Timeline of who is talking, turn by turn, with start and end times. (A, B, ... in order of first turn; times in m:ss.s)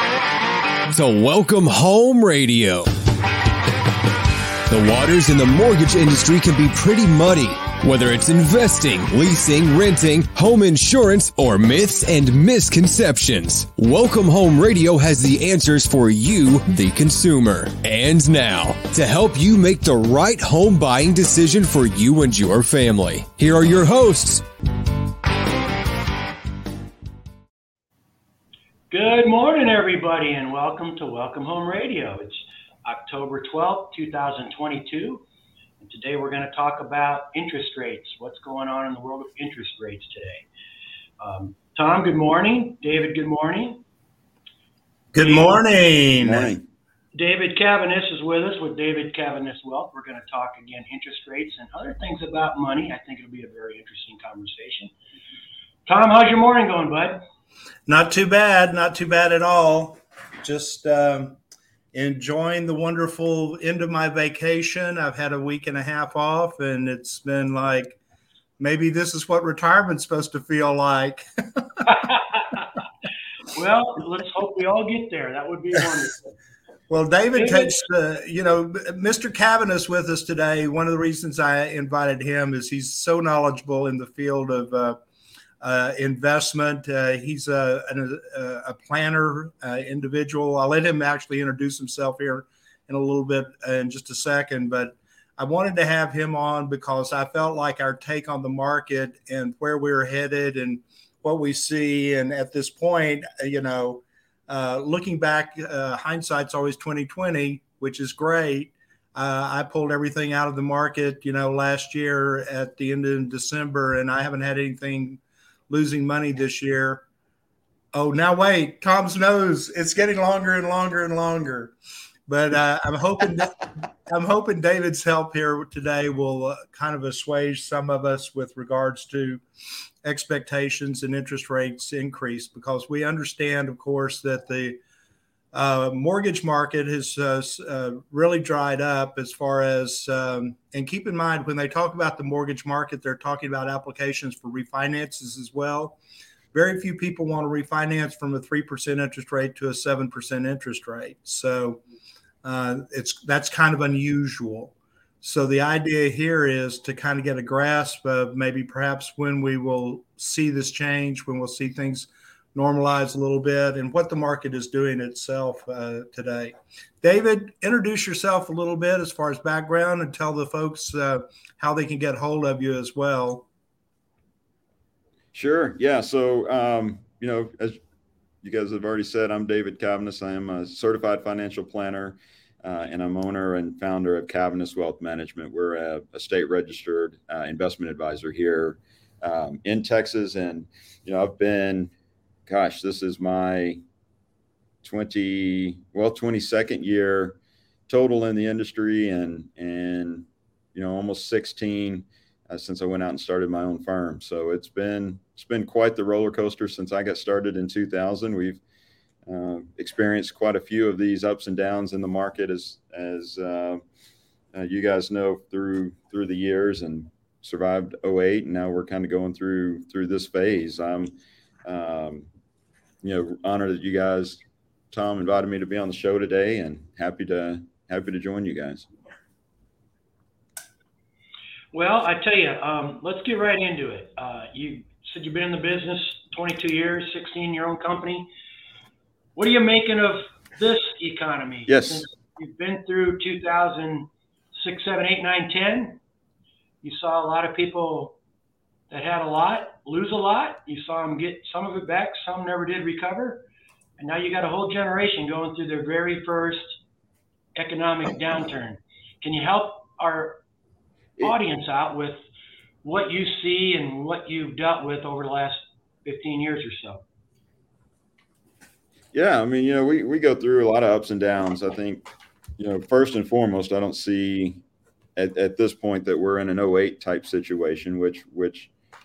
0:00.9-0:02.9 A
0:04.7-0:24.4 A
0:28.9-0:35.2 B
0:35.8-0:40.4 B
0:41.2-0:43.8 B
0:45.1-0:46.5 C
0:45.2-0:45.4 B
0:46.2-0:46.6 D
0:47.2-0:54.9 B
0:55.8-0:57.2 B
0:57.8-1:01.4 C
1:01.9-1:08.0 C
1:08.6-1:12.0 C
1:11.9-1:12.6 B
1:13.5-1:16.2 B
1:16.9-1:25.0 C
1:17.3-1:17.8 B
1:25.6-1:57.0 C
1:57.9-2:01.7 C
2:02.3-2:09.4 C
2:10.0-2:14.8 C
2:15.5-2:26.0 C
2:26.5-2:31.8 C
2:32.4-2:53.4 C
2:55.3-2:57.8 D
2:58.4-3:11.9 D
3:12.5-3:13.8 D
3:14.8-3:17.4 D
3:17.9-3:28.6 D
3:29.2-3:33.8 D
3:34.5-3:41.1 D
3:41.6-3:42.3 D
3:43.0-3:48.9 D
3:51.7-3:58.3 B
3:59.4-4:06.0 B
4:01.7-4:02.0 D
4:06.8-4:08.2 B
4:08.9-4:13.4 B
4:14.0-4:16.8 B
4:17.6-4:20.4 B
4:21.2-4:22.2 B
4:22.8-4:27.0 B
4:29.1-4:32.0 D
4:32.6-4:34.6 D
4:35.2-4:38.7 D